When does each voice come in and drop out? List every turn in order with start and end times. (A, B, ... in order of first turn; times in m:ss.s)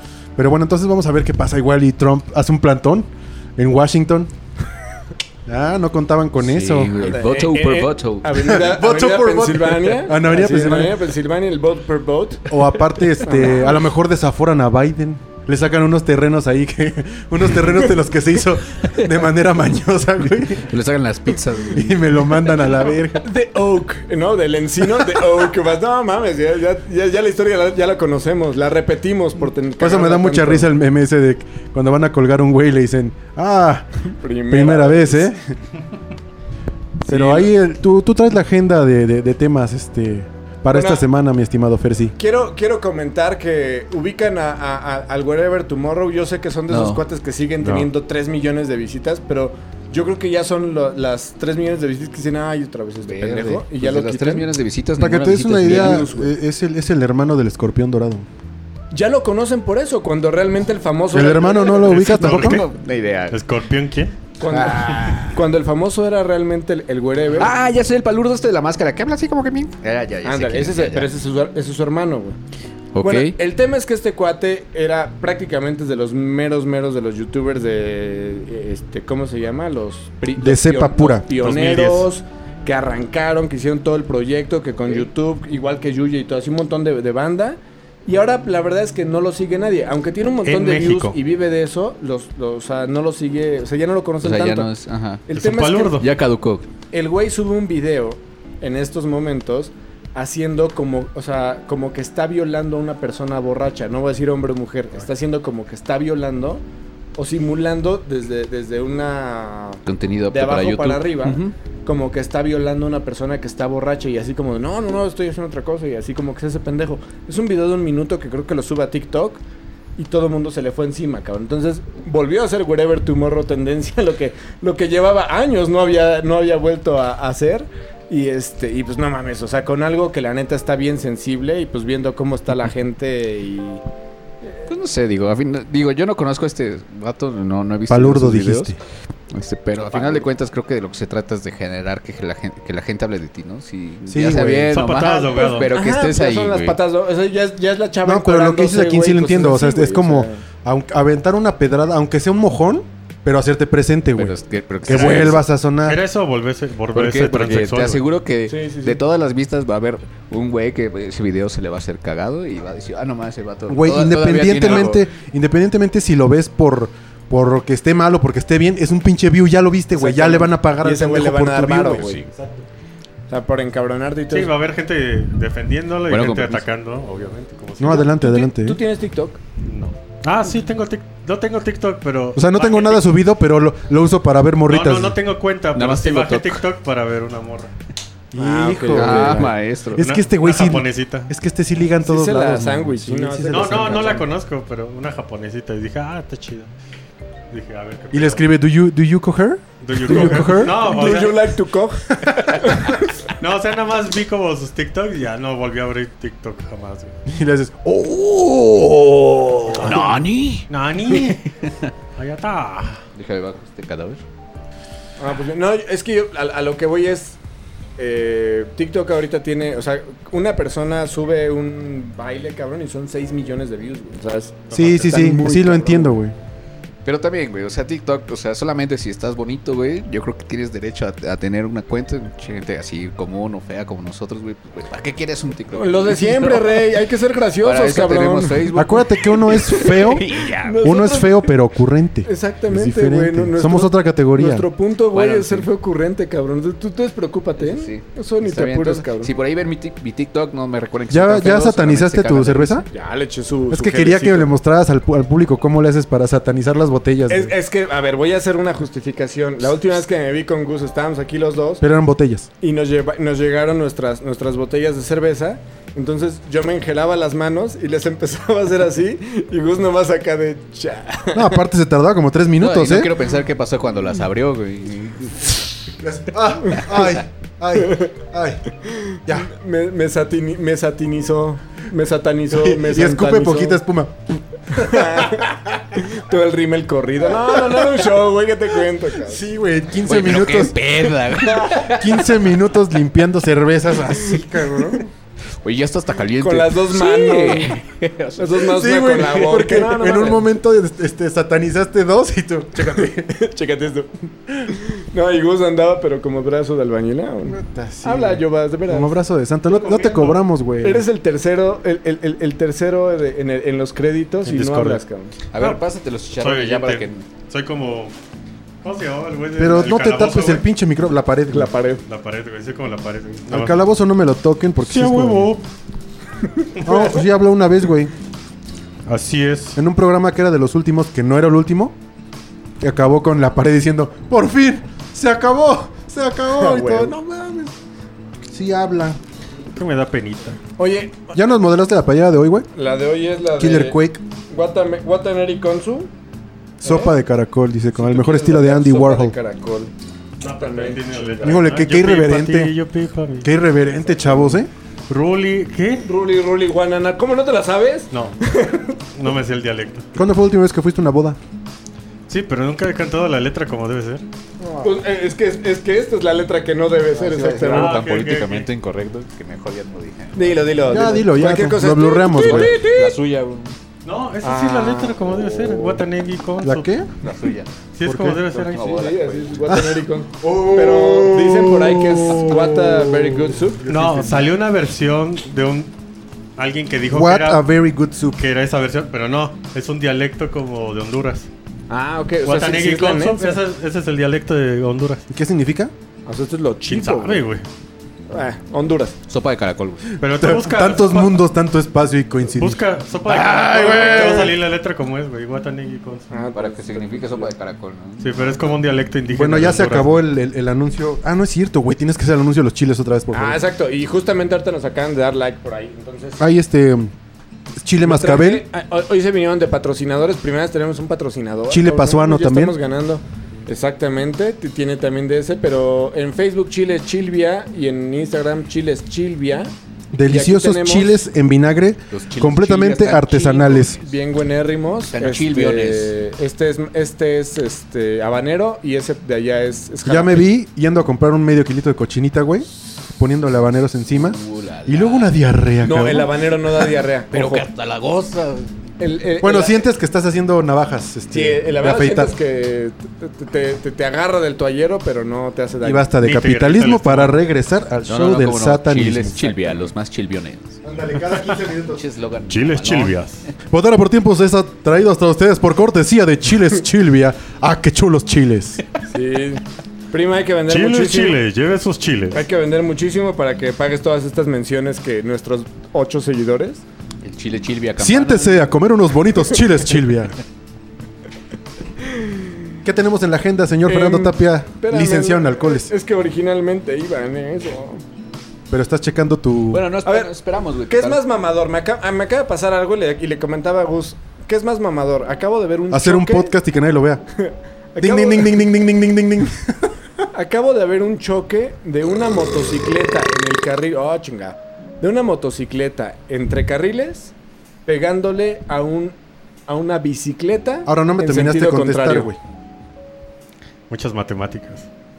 0:00.4-0:04.3 A
0:05.5-0:07.2 A
0:06.4-0:08.5 B
0:07.0-0:12.6 C
0:08.4-0:11.0 A
0:12.5-0:20.7 A
0:13.2-0:13.8 C
0:20.6-0:22.1 B
0:21.7-0:23.3 A
0:23.2-0:30.7 C
0:29.8-0:33.9 A
0:34.1-0:35.3 C
0:34.5-0:35.6 A
0:37.0-0:37.5 C
0:37.1-0:42.2 A
0:40.7-0:41.1 C
0:42.2-0:54.5 C
0:46.7-0:47.0 B
0:47.6-0:47.9 D
0:53.0-0:56.1 B
0:55.0-0:58.3 A
0:55.6-0:56.3 C
0:58.9-1:02.1 C
1:01.1-1:02.6 A
1:01.8-1:02.7 D
1:02.1-1:03.4 B
1:03.3-1:04.2 D
1:04.4-1:07.5 C
1:04.4-1:05.4 B
1:07.3-1:11.1 B
1:10.2-1:12.4 C
1:12.9-1:13.4 B
1:13.0-1:34.7 C
1:20.4-1:21.3 A
1:21.4-1:22.1 D
1:30.4-1:31.2 D
1:34.2-1:35.3 B
1:35.3-1:36.0 C
1:35.4-1:36.1 D
1:36.0-1:36.7 B
1:36.9-1:46.6 C
1:47.2-1:59.4 C
1:49.8-1:51.5 B
2:00.0-2:13.8 C
2:14.7-2:18.8 B
2:17.9-2:18.8 A
2:19.3-2:26.8 B
2:19.8-2:20.3 C
2:24.1-2:24.8 A
2:24.7-2:25.7 D
2:25.3-2:30.4 C
2:28.0-2:36.0 A
2:34.2-2:35.4 B
2:34.9-2:38.0 D
2:36.9-2:45.0 B
2:38.5-2:39.0 C
2:43.7-2:52.2 A
2:50.0-2:52.2 C
2:51.9-2:52.3 B
2:53.3-2:54.5 C
2:54.3-2:58.1 D
2:56.1-2:56.6 B
2:57.8-2:58.8 A
2:58.0-2:59.4 C
2:59.6-3:03.0 D
3:02.4-3:05.2 A
3:04.7-3:07.7 D
3:05.7-3:06.6 B
3:08.3-3:14.2 A
3:08.4-3:09.6 C
3:08.9-3:10.1 B
3:09.9-3:11.3 D
3:12.0-3:14.2 C
3:13.5-3:16.7 D
3:17.5-3:18.4 D
3:18.1-3:20.8 A
3:19.8-3:21.6 D
3:20.3-3:23.0 C
3:22.2-3:22.7 A
3:23.2-3:27.2 D
3:27.3-3:30.1 A
3:29.8-3:31.9 B
3:29.8-3:30.1 D
3:30.7-3:31.5 D
3:32.2-3:33.0 D
3:33.1-3:34.2 B
3:35.2-3:37.4 C
3:38.0-3:46.2 C
3:44.7-3:45.3 D
3:44.7-3:46.4 A
3:47.0-3:56.9 B
3:55.7-3:58.7 C
3:57.6-4:00.9 B
3:58.7-4:00.3 A
4:00.6-4:01.5 C
4:00.8-4:04.7 A
4:02.2-4:09.3 C
4:05.1-4:05.7 B
4:07.6-4:12.9 B
4:11.1-4:12.9 A
4:12.9-4:14.5 C
4:13.7-4:17.5 A
4:17.3-4:21.8 C
4:21.8-4:22.5 A
4:22.6-4:31.6 C
4:31.3-4:33.1 A
4:32.6-4:35.6 B
4:36.0-4:38.6 A
4:37.8-4:38.2 C
4:38.7-4:43.8 C
4:39.2-4:39.5 A
4:42.5-4:45.6 A
4:44.7-4:49.5 C
4:47.4-4:48.0 A
4:49.2-4:55.1 A
4:50.0-4:52.5 B
4:54.1-4:55.0 C
4:55.6-4:59.6 B
4:56.4-4:57.8 C
4:58.4-5:00.5 C
4:58.6-5:03.3 A
5:02.9-5:09.2 C
5:07.5-5:11.1 A
5:09.7-5:10.4 D
5:10.8-5:15.3 C
5:14.4-5:15.0 D
5:15.5-5:17.2 B
5:15.5-5:15.8 D
5:16.4-5:18.1 D
5:18.8-5:20.7 D
5:19.6-5:21.7 A
5:21.5-5:22.0 C
5:22.1-5:23.8 D
5:23.5-5:25.5 A
5:24.8-5:25.6 D
5:26.5-5:26.7 C
5:26.8-5:27.1 D
5:26.8-5:28.1 A
5:29.1-5:29.8 D
5:29.8-5:32.0 A
5:32.8-5:37.7 A
5:36.5-5:37.7 C
5:38.5-5:39.2 A
5:39.8-5:40.6 D
5:40.8-5:41.3 C
5:41.3-5:42.7 A
5:42.7-5:46.1 C
5:43.6-5:44.2 A
5:46.8-5:47.1 C
5:46.8-5:49.4 A
5:48.0-5:49.9 C
5:50.4-5:53.5 D
5:50.4-5:51.6 C
5:51.4-5:52.7 A
5:53.4-5:54.7 A
5:55.1-5:56.1 D
5:56.0-5:59.0 C
5:58.1-5:58.4 D
5:59.1-6:00.1 D
6:00.2-6:01.4 A
6:02.3-6:04.2 D
6:04.7-6:08.0 C
6:07.1-6:11.1 B
6:07.7-6:08.7 D
6:10.3-6:13.2 C
6:10.9-6:12.8 A
6:12.3-6:13.8 B
6:14.0-6:16.9 D
6:14.4-6:16.0 C
6:16.6-6:17.1 A
6:17.2-6:17.8 B
6:17.9-6:19.1 D
6:18.0-6:18.4 A
6:18.5-6:19.8 B
6:18.8-6:24.1 C
6:19.7-6:24.5 A
6:23.9-6:25.9 D
6:26.6-6:27.6 D
6:27.1-6:28.4 A
6:28.4-6:31.5 D
6:31.9-6:33.6 C
6:32.5-6:35.2 D
6:35.3-6:35.9 A
6:36.3-6:37.5 C
6:36.9-6:37.7 D
6:38.3-6:39.2 C
6:39.3-6:40.0 B
6:40.2-6:41.4 D
6:40.2-6:42.8 A
6:42.6-6:46.3 D
6:43.3-6:44.5 B
6:43.9-6:44.4 A
6:46.3-6:47.5 C
6:46.5-6:48.8 B
6:48.2-6:50.2 D
6:49.3-6:53.6 A
6:53.3-6:56.5 C
6:56.4-6:57.1 A
6:57.8-6:58.6 A
6:58.0-7:09.7 C
7:01.7-7:02.8 A
7:10.1-7:14.0 A
7:10.2-7:11.1 C
7:12.1-7:14.0 B
7:13.9-7:20.5 C
7:15.1-7:16.2 B
7:20.0-7:26.3 A
7:24.2-7:25.3 B
7:25.8-7:27.7 C
7:27.3-7:28.7 B
7:29.0-7:29.8 C
7:29.4-7:32.3 A
7:31.3-7:36.2 C
7:35.8-7:39.4 A
7:36.2-7:37.4 D
7:38.1-7:40.8 B
7:40.8-7:42.0 A
7:41.4-7:43.2 B
7:42.5-7:43.5 D
7:43.7-7:48.8 A
7:49.1-7:51.4 C
7:50.7-7:52.4 D
7:52.3-7:56.8 C
7:57.2-7:58.8 B
7:58.0-8:00.4 A
8:02.0-8:02.5 C
8:02.8-8:05.9 A
8:03.9-8:08.0 C
8:08.7-8:09.9 A
8:09.7-8:11.2 B
8:10.0-8:10.3 C
8:10.9-8:16.5 C
8:15.9-8:17.2 A
8:17.4-8:18.6 C
8:18.0-8:19.9 A
8:20.3-8:27.3 C
8:27.9-8:29.2 C
8:29.7-8:32.3 C
8:30.9-8:32.4 A
8:33.9-8:34.9 D